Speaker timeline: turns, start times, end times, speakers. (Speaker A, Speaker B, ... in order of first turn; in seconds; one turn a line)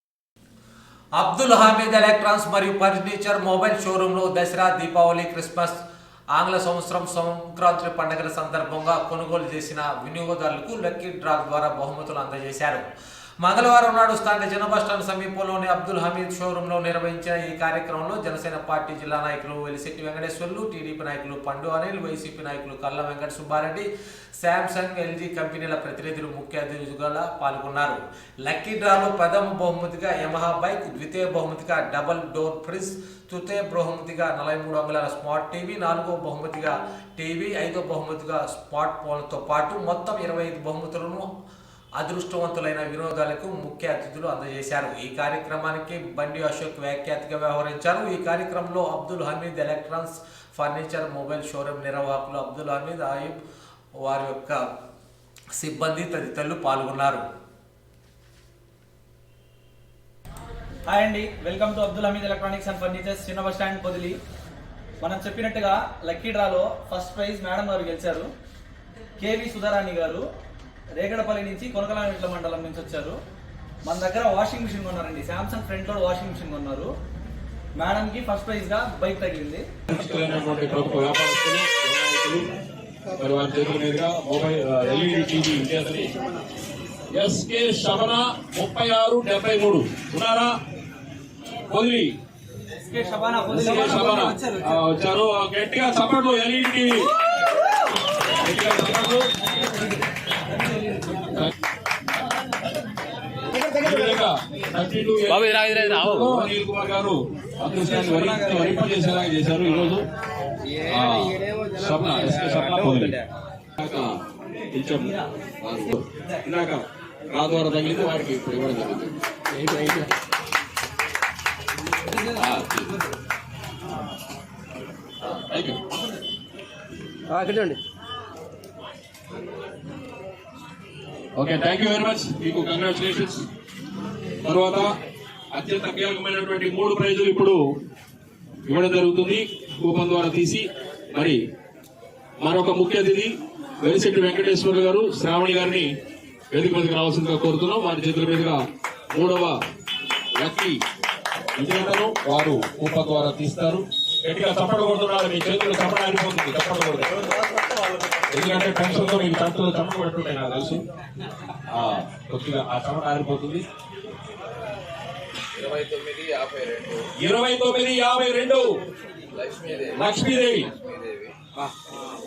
Speaker A: 1.2-5.8
Speaker A: 6.3-41.3
Speaker A: 42.0-53.4
Speaker A: 54.0-54.7
Speaker A: 55.5-57.2
Speaker B: 60.9-64.2
Speaker B: 65.0-68.3
Speaker B: 69.2-70.2
Speaker B: 70.9-73.2
Speaker B: 73.8-76.9
Speaker B: 77.8-79.7
Speaker C: 79.9-82.5
Speaker C: 83.2-86.1
Speaker C: 87.1-90.5
Speaker C: 91.7-92.1
Speaker B: 92.7-94.7
Speaker C: 93.5-97.1
Speaker C: 98.4-99.3
Speaker C: 103.8-110.1
Speaker D: 105.5-106.0
Speaker C: 110.9-113.2
Speaker D: 110.9-111.9
Speaker D: 112.5-113.1
Speaker C: 113.8-120.0
Speaker C: 122.2-123.0
Speaker C: 125.2-125.8
Speaker D: 127.3-127.8
Speaker C: 131.3-133.4
Speaker C: 134.4-134.9
Speaker C: 135.5-137.8
Speaker C: 138.6-141.4
Speaker C: 142.4-145.9
Speaker C: 146.5-149.6
Speaker C: 150.3-150.8
Speaker C: 151.6-157.2
Speaker C: 158.3-160.8
Speaker C: 161.7-163.6
Speaker D: 165.7-167.0
Speaker C: 167.2-168.7
Speaker D: 169.4-170.0
Speaker C: 169.7-170.7
Speaker D: 170.8-171.3